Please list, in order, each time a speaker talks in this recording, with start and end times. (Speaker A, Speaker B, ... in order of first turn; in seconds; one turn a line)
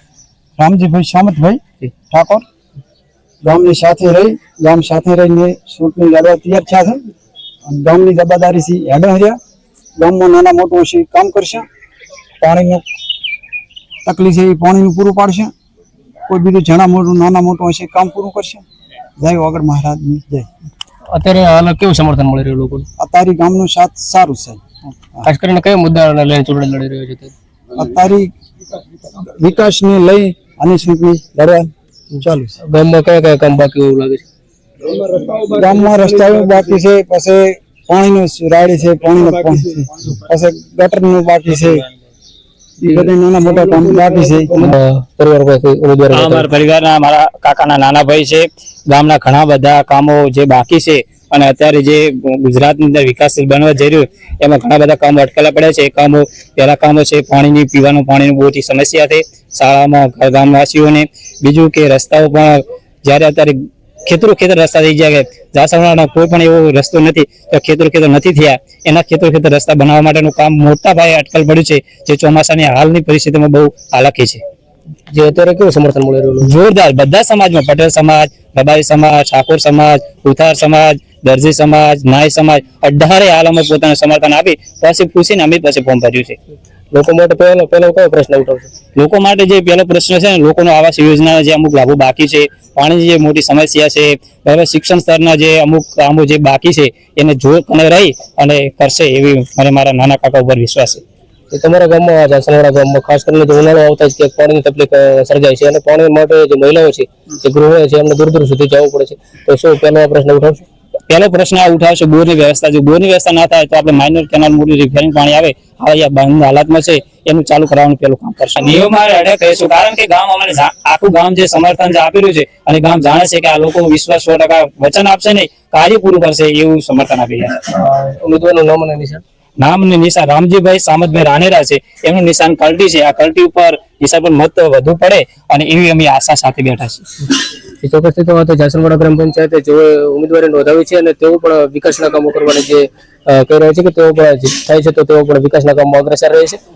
Speaker A: 0.6-2.4
Speaker A: 3.4-7.0
Speaker A: 7.7-9.4
Speaker A: 10.0-11.6
Speaker A: 12.4-12.8
Speaker A: 14.1-15.5
Speaker A: 16.3-18.6
Speaker A: 19.2-20.5
Speaker B: 21.1-22.9
Speaker A: 23.0-24.6
Speaker B: 25.2-27.3
Speaker A: 27.8-28.3
Speaker A: 29.2-31.7
Speaker B: 32.1-34.2
Speaker A: 32.2-32.5
Speaker A: 35.3-41.9
Speaker A: 42.8-44.5
Speaker B: 44.5-46.5
Speaker C: 46.1-74.4
Speaker B: 75.1-76.5
Speaker C: 76.4-86.4
Speaker B: 86.9-88.7
Speaker C: 89.0-101.0
Speaker B: 101.5-110.7
Speaker C: 111.1-127.6
Speaker B: 127.7-129.2
Speaker C: 129.6-137.0
Speaker B: 137.8-146.6